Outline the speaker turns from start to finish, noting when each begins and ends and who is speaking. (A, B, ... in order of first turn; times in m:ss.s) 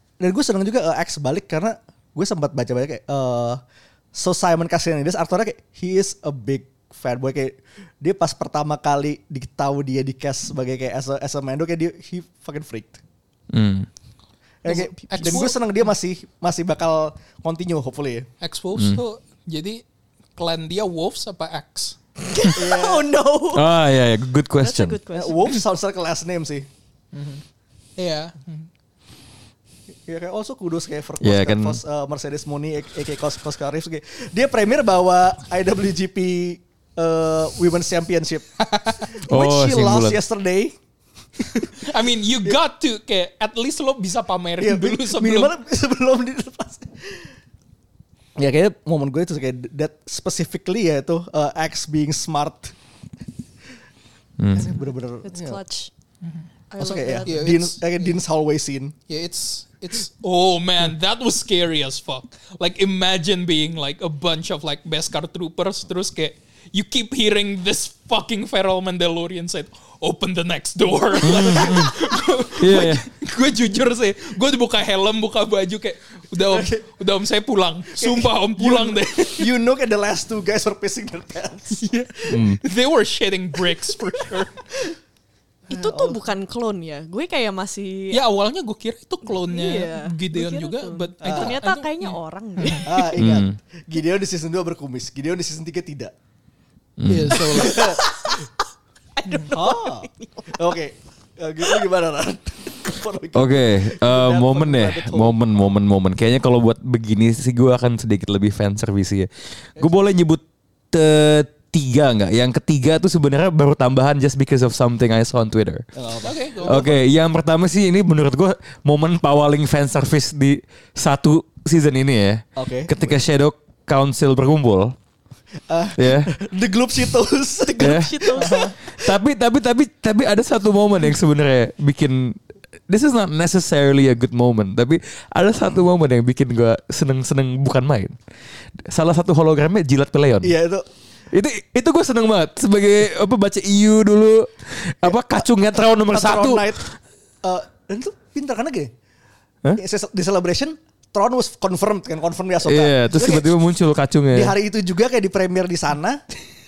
0:00.2-0:03.6 A
0:04.1-0:13.0 A
0:13.5-0:13.9 B
0:14.6-0:18.3 A
0:14.7-0:15.6 C
0:14.7-0:15.5 D
0:18.4-0:19.8 C
0:18.8-0:19.0 B
0:20.4-0:22.0 C
0:22.2-0:23.7 D
0:22.6-0:23.1 A
0:23.5-0:25.0 B
0:24.6-0:25.5 D
0:25.1-0:26.7 A
0:27.1-0:27.4 C
0:28.0-0:28.7 C
0:30.1-0:38.5 A
0:31.2-0:31.8 B
0:38.6-0:39.0 C
0:39.0-0:40.8 A
0:39.3-0:40.2 B
0:41.8-0:45.5 C
0:44.6-0:47.3 A
0:48.4-0:52.8 A
0:54.4-0:54.7 B
0:54.5-0:55.6 A
0:55.2-0:55.9 D
0:56.7-0:57.5 D
0:56.8-0:59.0 A
0:57.3-0:58.2 C
0:59.1-1:19.5 C
1:11.2-1:11.9 B
1:12.6-1:13.0 B
1:16.4-1:16.8 A
1:17.9-1:22.4 A
1:21.8-1:24.6 C
1:22.3-1:22.6 B
1:25.7-1:26.2 A
1:25.7-1:28.2 D
1:28.1-1:32.9 C
1:29.4-1:33.2 D
1:31.2-1:31.6 A
1:32.8-1:36.1 A
1:33.2-1:33.6 B
1:37.0-1:37.5 B
1:37.1-1:37.9 C
1:37.3-1:38.1 A
1:37.5-1:38.5 D
1:39.2-1:40.6 D
1:39.3-1:39.5 C
1:39.5-1:45.4 A
1:43.4-1:55.9 B
1:56.0-1:57.0 A
1:56.2-1:57.0 C
1:56.6-2:05.0 B
2:02.6-2:03.2 A
2:05.7-2:08.8 A
2:06.0-2:06.3 B
2:07.7-2:08.7 D
2:07.8-2:08.4 B
2:08.9-2:18.2 B
2:18.8-2:20.6 B
2:20.4-2:20.8 A
2:21.3-2:26.7 B
2:25.0-2:25.5 A
2:26.1-2:26.8 A
2:27.4-2:28.9 A
2:29.7-2:33.6 A
2:32.6-2:34.5 B
2:34.3-2:36.2 A